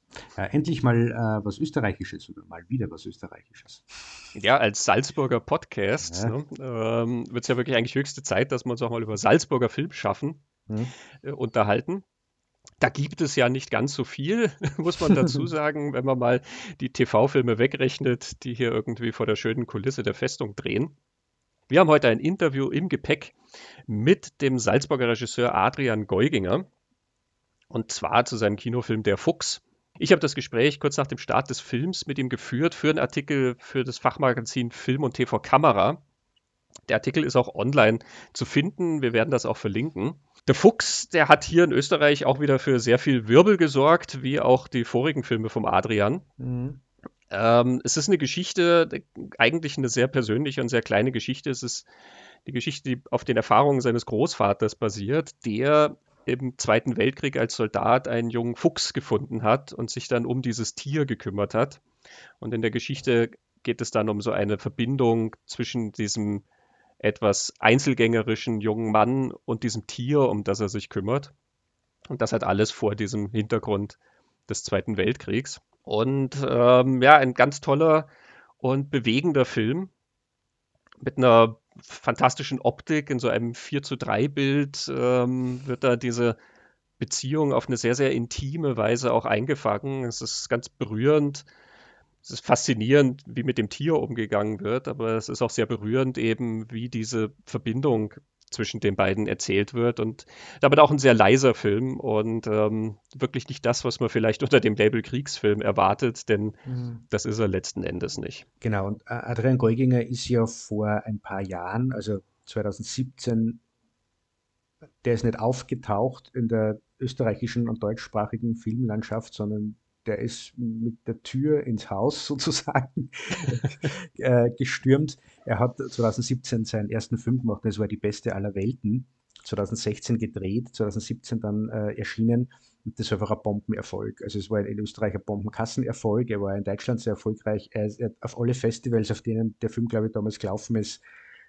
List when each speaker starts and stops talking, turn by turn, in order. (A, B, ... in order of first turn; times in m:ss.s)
0:00.4-0:03.8 A
0:04.3-0:10.4 B
0:06.0-0:06.4 A
0:11.2-0:12.0 B
0:12.8-0:21.0 B
0:21.7-0:23.3 B
0:23.9-0:26.7 B
0:27.7-0:36.0 B
0:36.9-0:46.2 B
0:46.4-0:46.8 A
0:47.3-0:51.9 B
0:52.4-1:01.8 B
1:02.4-1:06.4 B
1:07.0-1:11.3 B
1:12.1-1:19.9 B
1:21.0-1:26.4 B
1:27.0-1:31.4 B
1:32.2-1:48.4 B
1:46.6-1:47.0 A
1:48.6-1:53.6 A
1:55.0-2:21.0 A